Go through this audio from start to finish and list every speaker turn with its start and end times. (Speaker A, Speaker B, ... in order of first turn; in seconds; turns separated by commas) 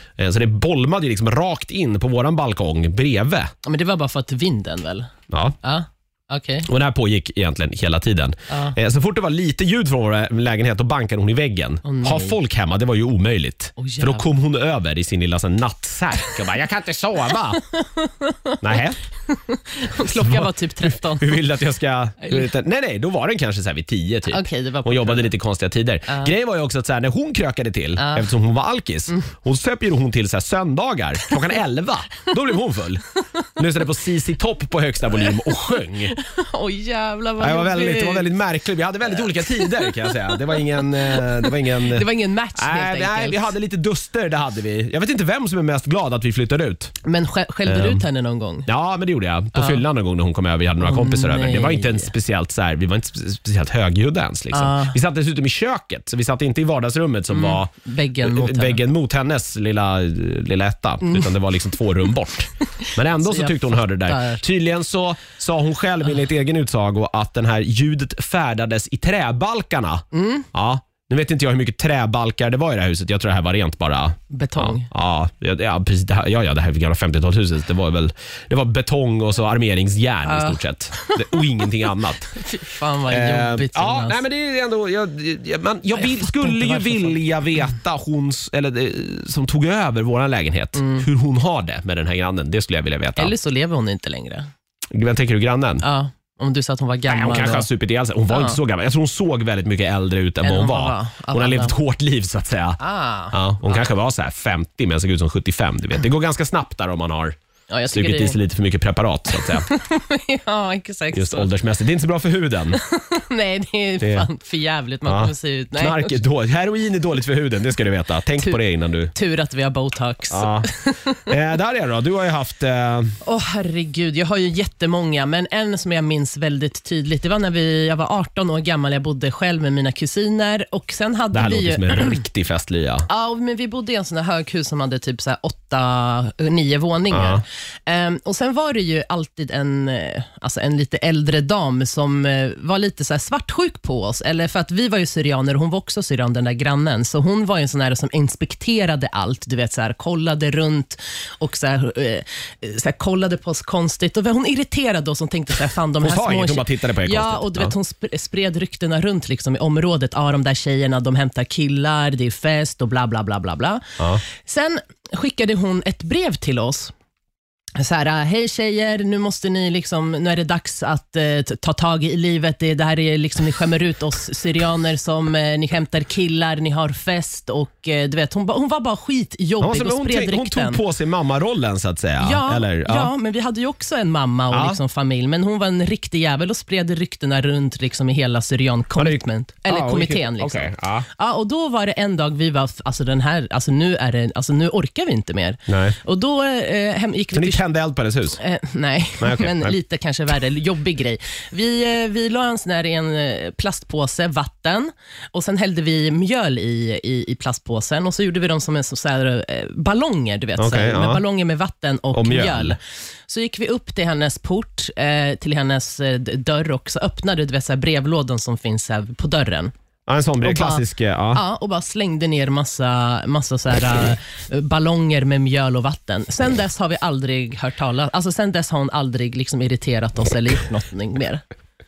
Speaker A: 0.2-3.5, Speaker B: 3.6-5.1, Speaker A: 5.3-5.6, Speaker B: 5.6-6.7, Speaker A: 6.7-17.6, Speaker B: 8.5-8.8, Speaker B: 11.8-12.4, Speaker B: 13.8-14.3, Speaker B: 17.3-21.4, Speaker A: 18.6-19.0, Speaker A: 20.1-36.1, Speaker B: 22.2-22.5, Speaker B: 24.3-25.3, Speaker B: 26.1-26.3, Speaker B: 28.0-28.3, Speaker B: 33.2-33.9, Speaker B: 35.1-38.4, Speaker A: 37.4-47.0, Speaker B: 39.1-43.5, Speaker B: 47.0-48.7, Speaker A: 47.7-48.0, Speaker A: 48.7-82.4, Speaker B: 49.6-49.8, Speaker B: 50.8-52.1, Speaker B: 54.5-55.0, Speaker B: 57.3-58.8, Speaker B: 61.0-61.3, Speaker B: 63.2-64.4, Speaker B: 70.1-70.5, Speaker B: 74.3-74.9, Speaker B: 80.2-81.7, Speaker B: 82.2-84.2, Speaker A: 83.1-93.3, Speaker B: 85.9-87.2, Speaker B: 90.8-91.1, Speaker B: 93.2-94.5, Speaker A: 94.9-95.8, Speaker B: 95.8-97.7, Speaker A: 97.1-102.8, Speaker B: 98.3-98.6, Speaker B: 100.4-101.8, Speaker B: 102.8-103.9, Speaker A: 103.3-107.4, Speaker B: 107.7-108.4, Speaker A: 107.9-109.7, Speaker B: 109.3-111.5, Speaker A: 111.1-112.8, Speaker B: 112.7-116.2, Speaker A: 114.0-114.3, Speaker A: 115.1-119.1, Speaker B: 119.1-121.3, Speaker A: 120.3-120.7, Speaker A: 121.3-123.2, Speaker B: 123.2-132.2, Speaker A: 131.3-133.1, Speaker B: 133.1-166.9, Speaker A: 137.1-137.4, Speaker A: 156.0-157.7, Speaker B: 167.8-180.8, Speaker A: 179.6-183.1, Speaker B: 182.2-197.6, Speaker A: 184.5-184.8, Speaker A: 189.0-191.1, Speaker A: 195.7-196.0, Speaker A: 197.3-198.4, Speaker B: 198.4-219.7, Speaker A: 199.2-199.8, Speaker A: 210.6-211.2, Speaker A: 212.1-212.8, Speaker A: 220.1-221.4, Speaker B: 220.4-231.4